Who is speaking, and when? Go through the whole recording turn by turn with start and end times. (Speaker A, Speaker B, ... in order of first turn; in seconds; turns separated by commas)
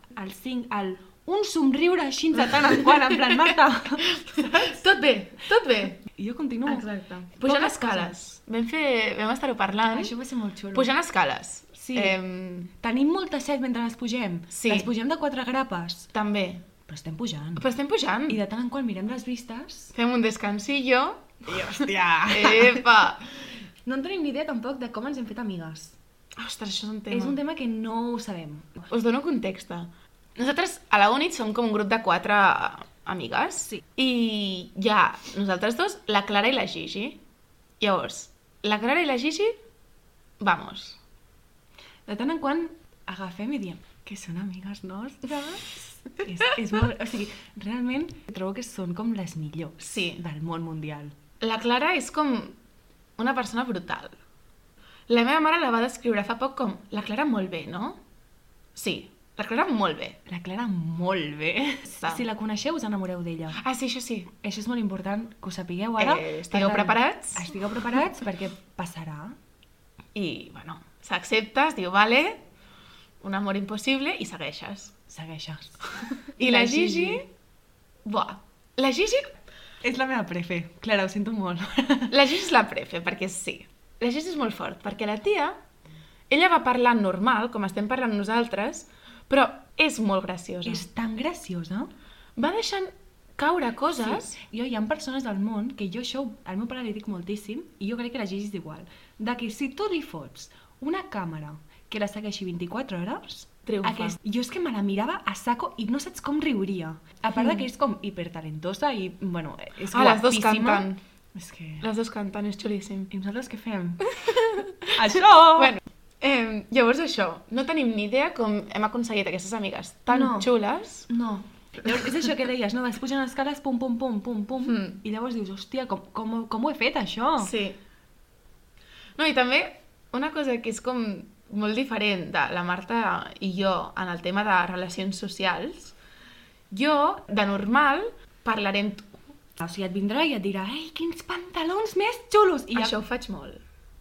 Speaker A: 0.1-4.8, Speaker B: 2.5-3.5, Speaker B: 4.0-6.0, Speaker A: 6.1-8.2, Speaker B: 6.7-10.1, Speaker A: 9.9-10.9, Speaker B: 10.7-12.7, Speaker A: 11.8-12.2, Speaker A: 12.8-16.1, Speaker B: 14.5-14.9, Speaker B: 16.1-16.6, Speaker A: 16.9-17.6, Speaker B: 17.6-18.4, Speaker A: 18.3-19.9, Speaker B: 19.9-23.3, Speaker A: 21.4-22.8, Speaker A: 23.9-25.9, Speaker B: 26.4-27.4, Speaker A: 27.1-28.9, Speaker B: 28.9-37.2, Speaker B: 37.8-39.5, Speaker B: 40.4-41.0, Speaker A: 42.1-51.1, Speaker B: 49.8-50.2, Speaker B: 51.4-52.6, Speaker B: 53.2-54.2, Speaker B: 55.1-58.0, Speaker B: 58.7-60.2, Speaker A: 60.2-63.6, Speaker B: 63.6-64.3, Speaker A: 64.4-69.3, Speaker B: 66.0-67.5, Speaker B: 70.1-72.4, Speaker B: 73.2-74.9, Speaker A: 75.1-75.8, Speaker A: 76.4-77.2, Speaker B: 76.4-77.2, Speaker B: 78.0-79.3, Speaker A: 79.8-82.1, Speaker B: 82.1-85.6, Speaker B: 86.3-90.8, Speaker A: 90.6-91.9, Speaker B: 92.3-94.4, Speaker A: 94.0-111.8, Speaker B: 103.7-104.2, Speaker B: 109.9-111.0, Speaker B: 111.8-113.1, Speaker A: 113.1-114.1, Speaker B: 114.1-121.1, Speaker A: 114.9-115.8, Speaker A: 120.1-120.5, Speaker A: 121.1-127.5, Speaker B: 124.6-125.0, Speaker B: 127.4-127.8, Speaker B: 129.2-135.9, Speaker B: 136.7-139.1, Speaker A: 139.6-142.9, Speaker B: 142.7-143.6